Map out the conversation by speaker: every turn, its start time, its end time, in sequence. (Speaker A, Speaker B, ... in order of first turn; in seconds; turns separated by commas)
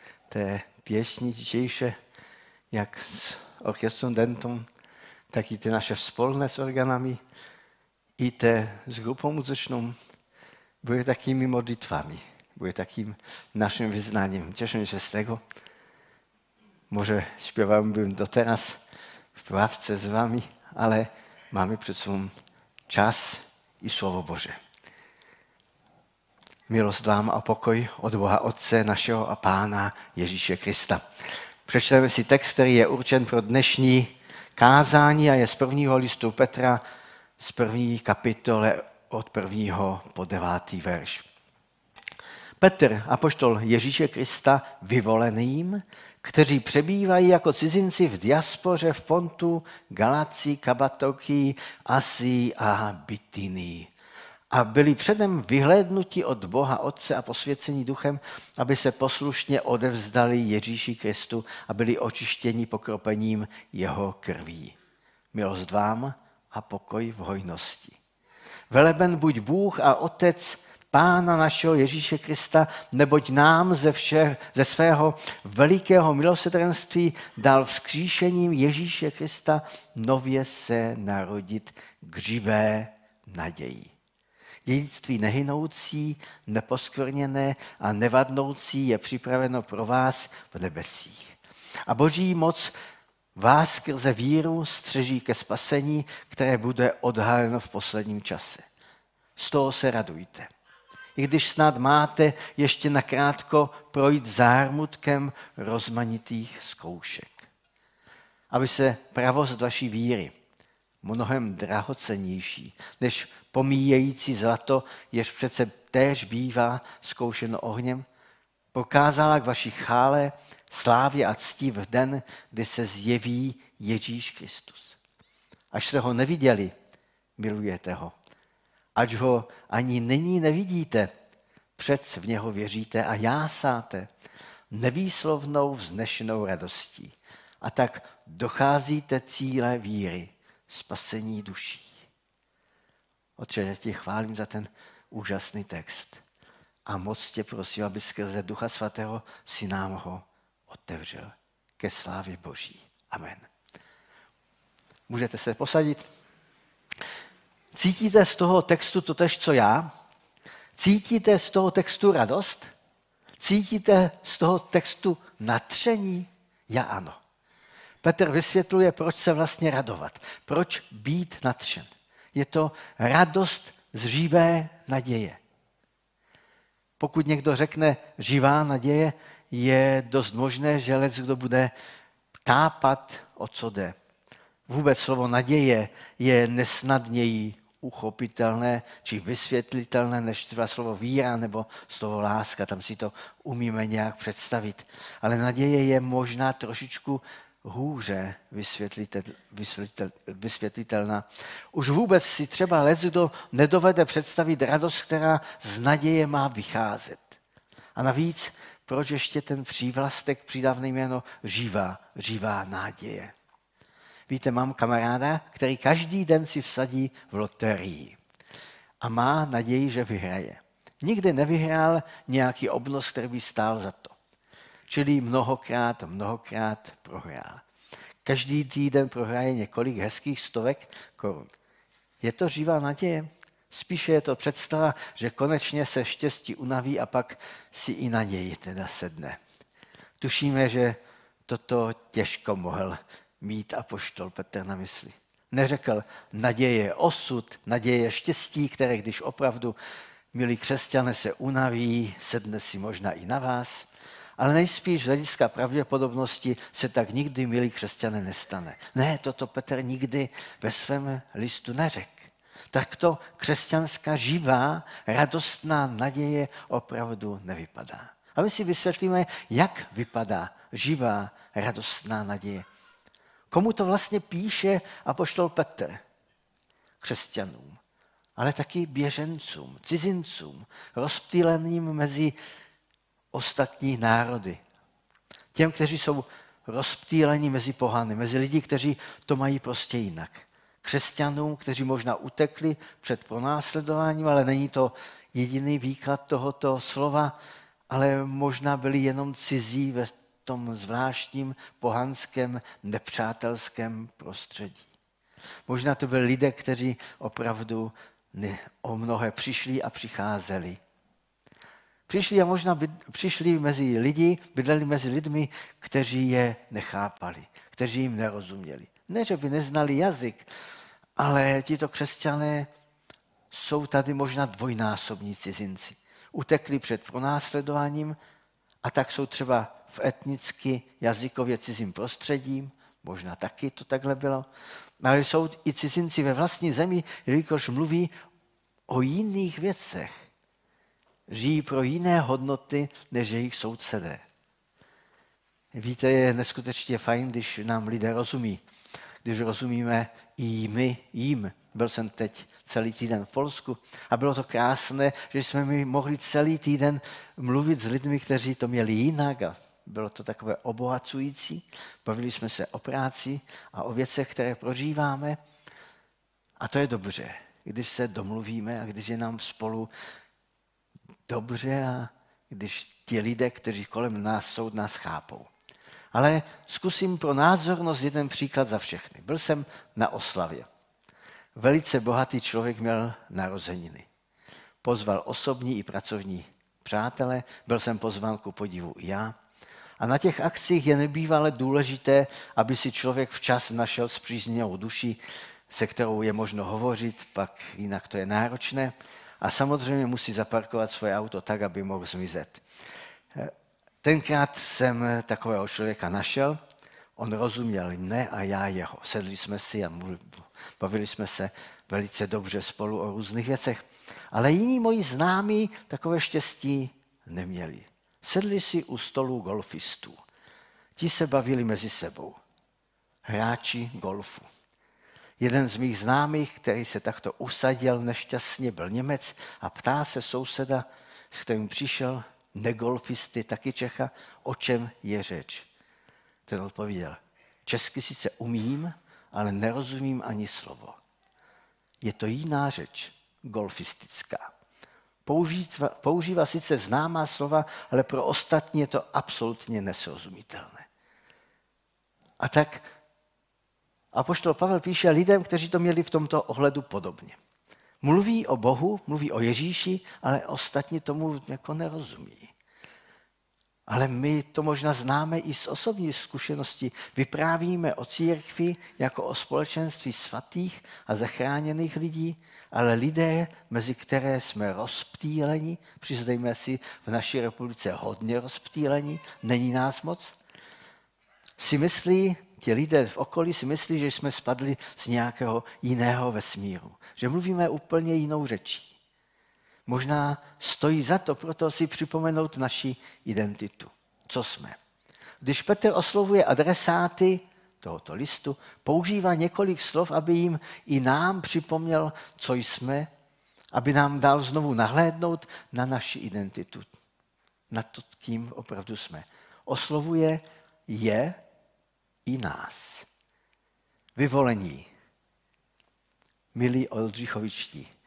Speaker A: 0.3-1.9, Speaker A: 2.7-4.7, Speaker A: 5.3-7.2, Speaker A: 8.2-9.9, Speaker A: 10.8-15.4, Speaker A: 16.9-18.8, Speaker A: 19.3-22.3, Speaker A: 22.9-24.6, Speaker A: 26.7-31.0, Speaker A: 31.7-36.8, Speaker A: 37.4-41.3, Speaker A: 42.6-53.9, Speaker A: 54.5-64.7, Speaker A: 65.3-68.0, Speaker A: 68.7-83.9, Speaker A: 84.7-92.7, Speaker A: 93.3-98.6, Speaker A: 99.4-100.5, Speaker A: 101.2-107.5, Speaker A: 108.5-110.3, Speaker A: 111.0-118.0, Speaker A: 118.7-125.0, Speaker A: 125.7-126.7, Speaker A: 127.4-128.1, Speaker A: 128.9-131.1, Speaker A: 131.8-134.1, Speaker A: 134.7-141.9, Speaker A: 143.4-146.2, Speaker A: 146.8-153.5, Speaker A: 155.1-156.1, Speaker A: 157.7-159.9, Speaker A: 160.8-162.7, Speaker A: 163.4-167.2, Speaker A: 168.0-175.4, Speaker A: 177.0-181.7, Speaker A: 182.4-183.9, Speaker A: 184.7-207.4, Speaker A: 207.9-213.3, Speaker A: 214.3-218.2, Speaker A: 219.0-224.2, Speaker A: 224.9-227.6, Speaker A: 228.2-231.5, Speaker A: 232.2-239.4, Speaker A: 240.2-249.8, Speaker A: 250.3-272.6, Speaker A: 273.5-276.0, Speaker A: 277.0-277.8, Speaker A: 278.4-282.3, Speaker A: 283.3-284.6, Speaker A: 285.5-297.3, Speaker A: 297.9-304.9, Speaker A: 305.7-310.8, Speaker A: 312.1-320.5, Speaker A: 321.2-322.7, Speaker A: 323.5-328.1, Speaker A: 328.8-334.5, Speaker A: 335.0-338.1, Speaker A: 338.9-340.3, Speaker A: 341.3-344.2, Speaker A: 345.7-348.6, Speaker A: 349.2-365.4, Speaker A: 366.6-369.9, Speaker A: 371.3-375.5, Speaker A: 376.1-380.7, Speaker A: 381.5-384.1, Speaker A: 384.8-389.3, Speaker A: 390.0-395.2, Speaker A: 395.7-402.6, Speaker A: 403.3-406.6, Speaker A: 407.2-420.2, Speaker A: 421.0-422.4, Speaker A: 423.2-424.5, Speaker A: 425.4-435.7, Speaker A: 436.5-441.0, Speaker A: 442.0-444.5, Speaker A: 445.2-450.9, Speaker A: 452.4-452.9, Speaker A: 454.1-457.4, Speaker A: 458.0-462.5, Speaker A: 463.9-480.4, Speaker A: 481.6-488.9, Speaker A: 489.9-494.8, Speaker A: 495.4-503.1, Speaker A: 503.7-506.9, Speaker A: 507.7-511.4, Speaker A: 512.2-513.1, Speaker A: 514.1-514.9, Speaker A: 516.5-517.9